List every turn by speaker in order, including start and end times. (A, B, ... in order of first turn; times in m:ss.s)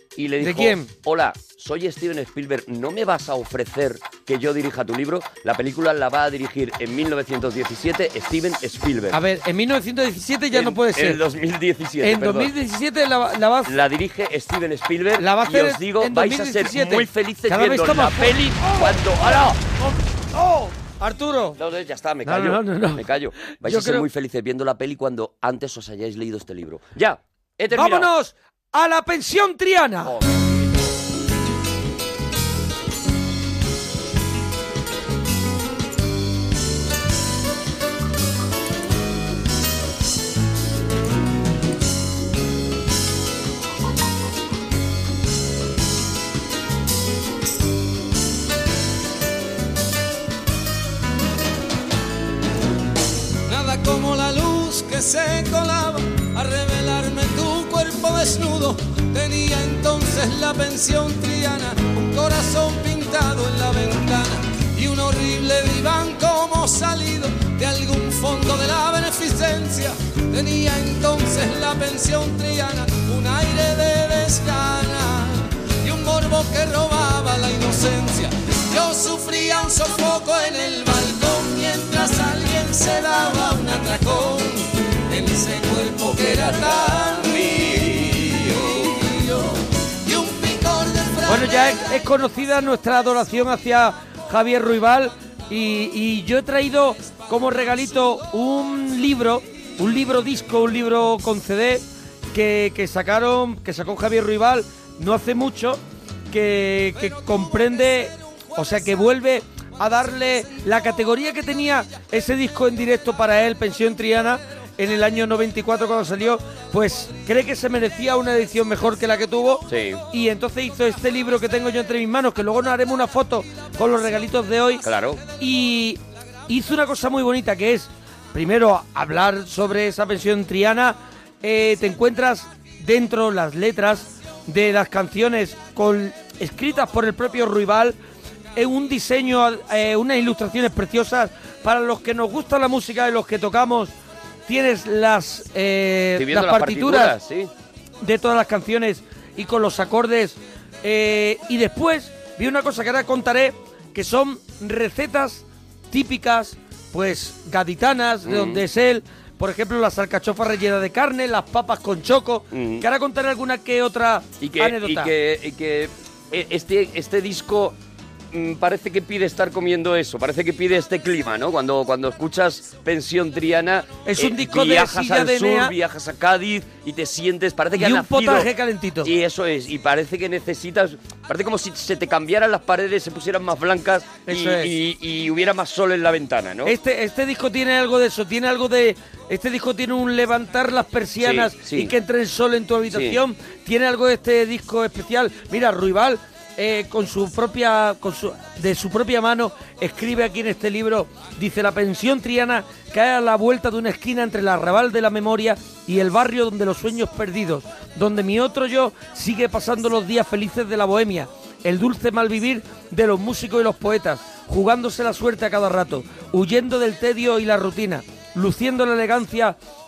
0:00.2-0:09.2 A
0:00.4-0:00.9 B
0:09.1-0:11.2 B
0:10.5-0:12.5 A
0:12.0-0:13.7 B
0:13.7-0:19.6 A
0:15.2-0:21.6 B
0:21.6-0:28.1 A
0:22.2-0:23.0 B
0:23.6-0:24.1 B
0:27.8-0:30.1 B
0:30.0-0:30.9 A
0:53.5-1:31.8 C
1:31.3-2:04.8 B
1:59.7-2:00.0 A
2:04.8-2:05.2 A
2:05.4-2:18.0 B
2:18.6-2:23.9 B
2:24.5-2:27.2 B
2:26.2-2:27.5 A
2:28.0-2:45.1 B
2:38.2-2:38.6 A
2:42.5-2:42.9 A
2:44.4-2:47.8 A
2:48.3-2:58.5 A
2:54.1-2:55.7 B
2:57.8-2:59.1 B
2:59.0-3:06.8 A
3:04.3-3:04.7 B
3:06.6-3:39.6 B
3:11.2-3:11.9 A
3:12.9-3:13.2 A